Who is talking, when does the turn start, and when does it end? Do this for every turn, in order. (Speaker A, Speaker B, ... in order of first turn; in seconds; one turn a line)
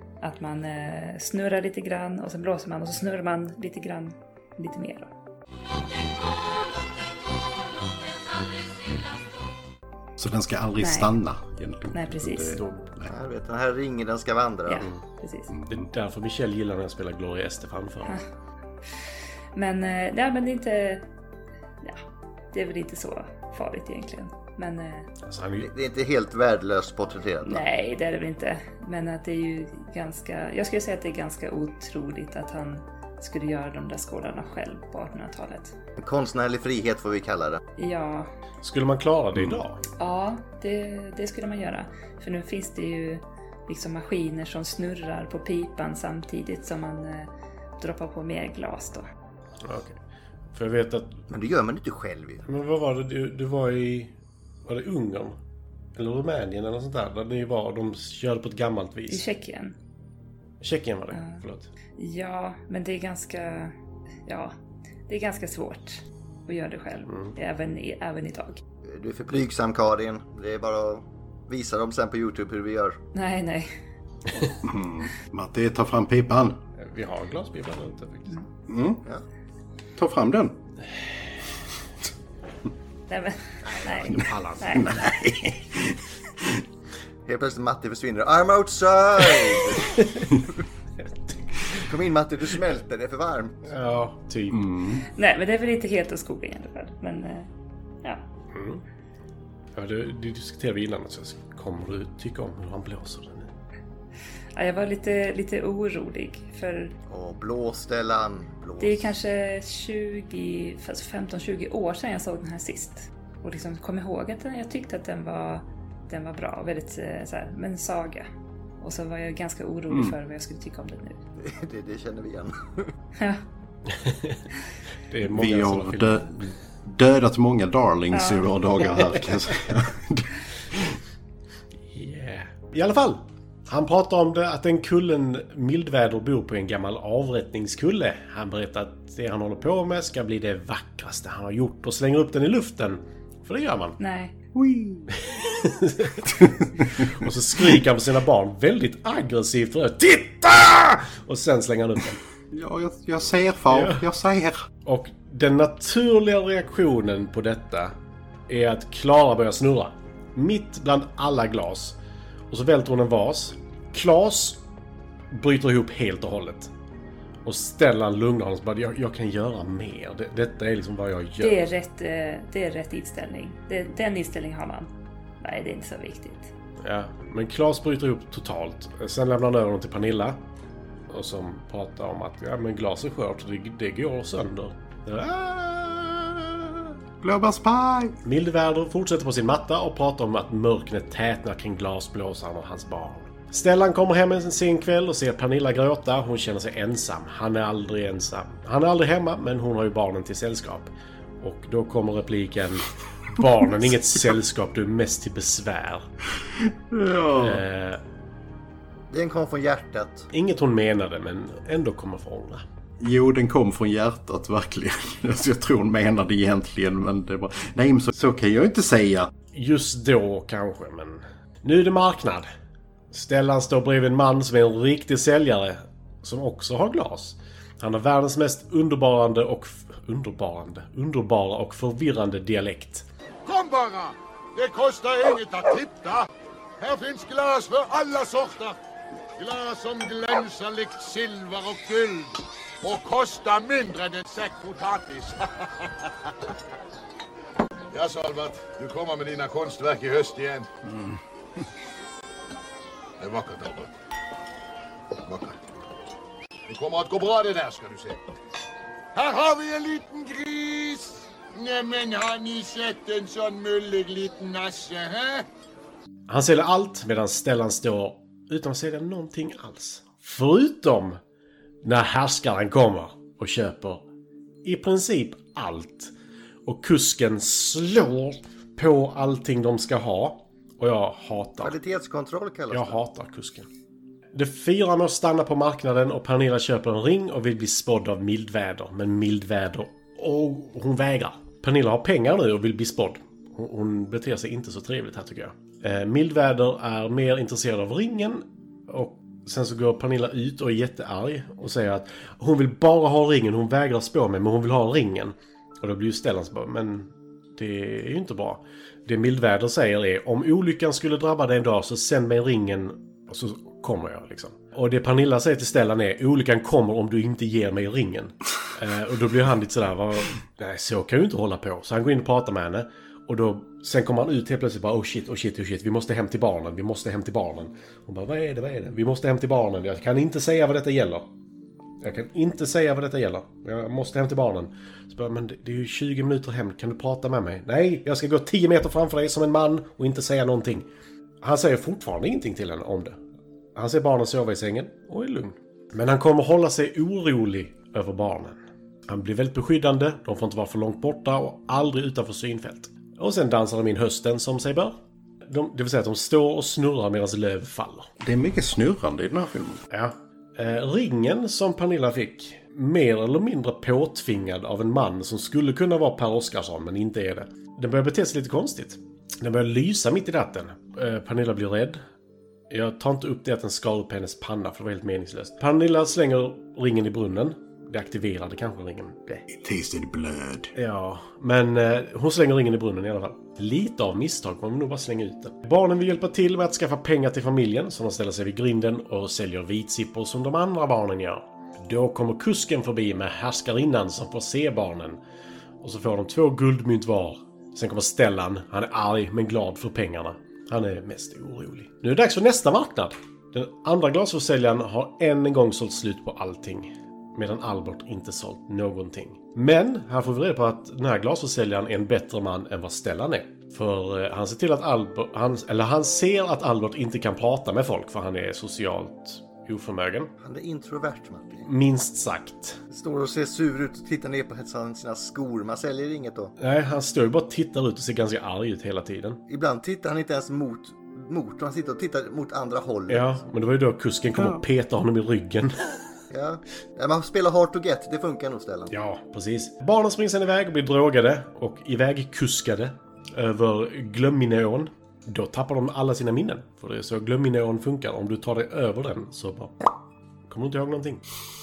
Speaker A: 0.2-5.1
Speaker B: 10.2-13.1
Speaker A: 10.8-11.1
Speaker A: 11.9-12.6
Speaker C: 12.5-12.9
Speaker D: 13.1-14.9
Speaker A: 14.7-15.5
Speaker B: 15.5-15.9
Speaker C: 15.7-18.2
Speaker A: 19.6-21.1
Speaker A: 22.5-25.1
Speaker C: 25.2-25.7
Speaker D: 25.6-27.6
Speaker A: 27.4-35.8
Speaker D: 36.0-37.6
Speaker A: 37.8-38.3
Speaker C: 38.6-39.8
Speaker B: 39.4-39.6
Speaker A: 40.0-49.1
Speaker C: 49.6-50.0
Speaker C: 50.5-51.2
Speaker D: 51.3-52.4
Speaker C: 52.5-54.1
Speaker C: 54.7-55.4
Speaker C: 56.0-59.3
Speaker A: 59.1-59.8
Speaker C: 60.6-61.7
Speaker A: 61.1-61.4
Speaker A: 62.0-63.7
Speaker A: 64.3-64.5
Speaker A: 65.1-68.6
Speaker C: 67.1-67.3
Speaker D: 68.9-73.0
Speaker A: 73.1-73.7
Speaker B: 74.6-76.6
Speaker C: 76.8-78.3
Speaker B: 78.7-79.0
Speaker B: 80.0-80.6
Speaker A: 83.1-85.0
Speaker C: 83.7-85.0
Speaker B: 84.8-86.6
Speaker D: 87.3-90.0
Speaker D: 91.7-93.6
Speaker C: 93.7-94.7
Speaker B: 94.5-95.0
Speaker A: 95.2-97.5
Speaker C: 98.5-98.8
Speaker C: 99.8-103.5
Speaker A: 104.5-106.9
Speaker D: 107.1-109.1
Speaker A: 108.8-118.3
Speaker A: 118.8-121.2
Speaker B: 119.9-120.2
Speaker D: 121.4-122.9
Speaker A: 123.2-123.4
Speaker C: 123.9-124.4
Speaker C: 125.1-126.3
Speaker B: 125.2-131.0
Speaker A: 128.1-128.5
Speaker C: 131.9-144.0
Speaker A: 144.0-144.3
Speaker B: 144.5-145.1
Speaker C: 145.3-152.2
Speaker B: 146.2-147.8
Speaker B: 152.5-154.7
Speaker C: 153.7-154.0
Speaker C: 154.8-157.9
Speaker C: 158.5-162.0
Speaker C: 162.5-164.6
Speaker C: 165.3-166.7
Speaker C: 167.4-171.6
Speaker A: 171.4-174.9
Speaker A: 175.4-176.5
Speaker C: 176.8-180.4
Speaker C: 181.1-186.9
Speaker B: 187.2-188.2
Speaker C: 188.2-206.1
Speaker B: 206.6-207.6
Speaker C: 207.4-208.0
Speaker D: 209.1-210.3
Speaker C: 210.3-212.6
Speaker B: 213.0-219.3
Speaker C: 219.5-222.5
Speaker C: 223.1-233.1
Speaker E: 233.5-236.3
Speaker E: 236.8-238.8
Speaker E: 239.4-246.3
Speaker E: 247.9-250.7
Speaker E: 253.2-253.9
Speaker E: 255.2-255.6
Speaker E: 256.7-258.2
Speaker E: 259.1-265.5
Speaker C: 266.3-271.2
Speaker C: 271.8-274.1
Speaker C: 274.6-276.1
Speaker C: 276.7-281.8
Speaker D: 281.6-283.0
Speaker C: 282.7-283.7
Speaker C: 284.3-331.3
Speaker C: 332.0-340.9
Speaker C: 341.4-343.2
Speaker C: 343.8-354.9
Speaker C: 355.5-358.1
Speaker B: 358.2-359.8
Speaker C: 359.9-372.0
Speaker C: 372.7-379.4
Speaker B: 379.5-380.7
Speaker C: 380.8-395.2
Speaker C: 395.8-420.3
Speaker D: 420.4-421.7
Speaker C: 421.6-422.8
Speaker D: 422.9-426.5
Speaker C: 426.6-429.4
Speaker D: 429.5-433.3
Speaker C: 433.1-435.7
Speaker B: 434.4-434.6
Speaker D: 436.3-438.9
Speaker C: 438.9-449.9
Speaker C: 450.5-451.2